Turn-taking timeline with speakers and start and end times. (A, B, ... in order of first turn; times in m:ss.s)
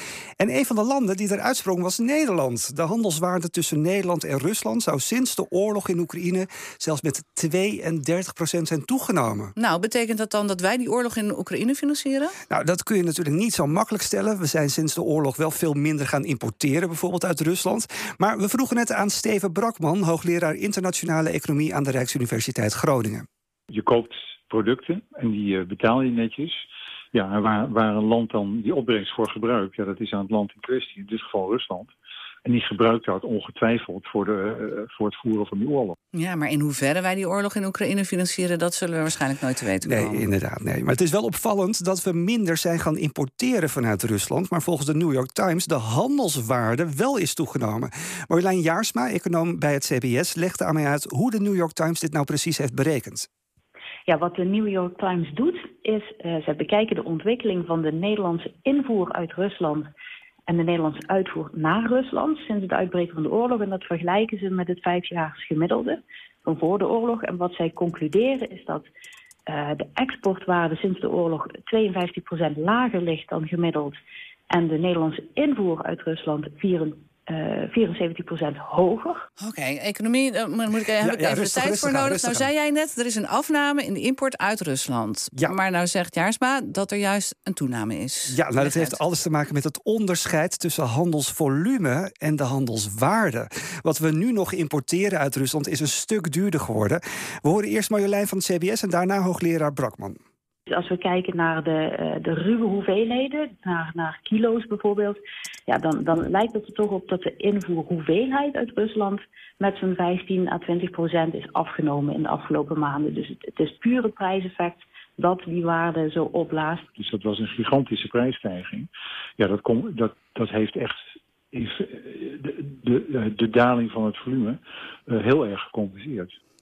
0:00.4-0:09.5 A
0:09.6-0:12.3 B
0:12.5-0:23.2 A
0:23.7-0:26.6 C
0:27.1-0:31.9 C
0:32.4-0:36.0 C
0:36.2-0:40.2 B
0:39.8-0:53.3 A
0:54.1-0:59.9 D
1:00.5-1:08.9 D
1:09.5-1:14.0 D
1:14.5-1:19.3 D
1:19.4-1:21.7 B
1:21.0-1:22.5 A
1:22.4-1:25.3 B
1:26.0-1:28.2 B
1:28.3-1:40.2 A
1:40.7-1:56.9 D
1:57.0-2:06.4 C